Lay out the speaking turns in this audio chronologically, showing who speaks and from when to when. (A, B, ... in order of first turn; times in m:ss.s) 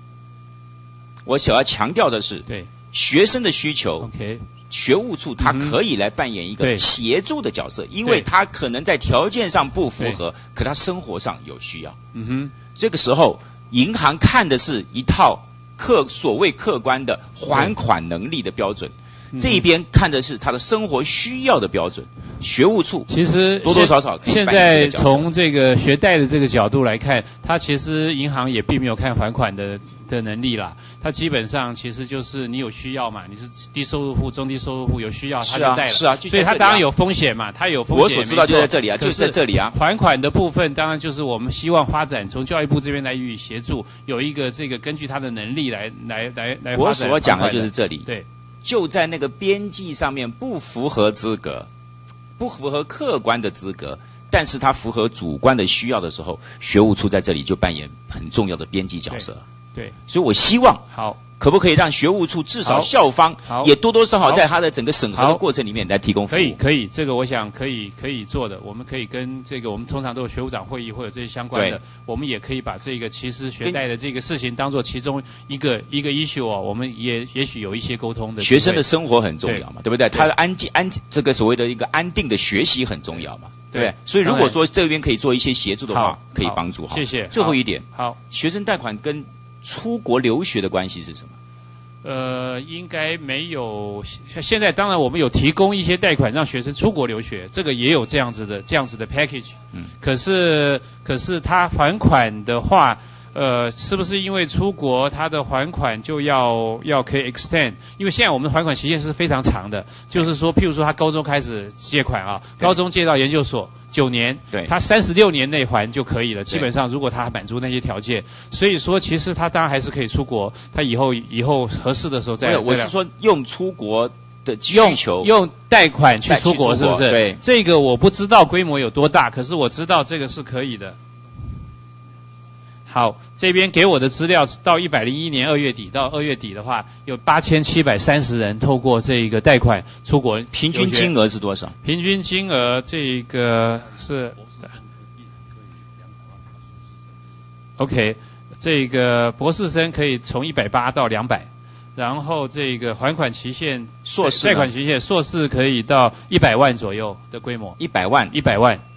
0:01.2-0:04.1 A
0:04.0-0:04.4 B
0:04.7-0:12.0 A
0:05.4-0:05.8 B
0:12.1-0:12.5 B
0:12.8-0:23.1 A
0:19.3-0:19.6 B
0:23.1-0:48.2 B
0:23.6-0:25.3 A
0:35.4-0:36.9 A
0:37.9-0:39.8 A
0:46.7-0:48.1 A
0:48.6-0:51.7 A
0:52.4-0:59.4 A
0:59.1-1:00.0 B
1:00.1-1:00.8 A
1:00.9-1:01.2 B
1:01.4-1:06.6 A
1:02.6-1:02.9 B
1:03.5-1:04.4 B
1:05.1-1:05.4 B
1:06.3-1:18.8 B
1:11.5-1:11.8 A
1:18.4-1:31.4 A
1:19.4-1:20.3 B
1:23.7-1:24.6 B
1:25.9-1:28.2 B
1:32.0-2:02.9 B
2:02.4-2:05.3 A
2:04.7-2:11.0 B
2:06.2-2:07.4 A
2:12.9-2:21.1 B
2:20.5-2:21.8 A
2:21.8-2:24.4 B
2:27.8-2:37.8 B
2:34.0-2:34.7 A
2:37.8-2:38.4 A
2:38.3-2:38.8 B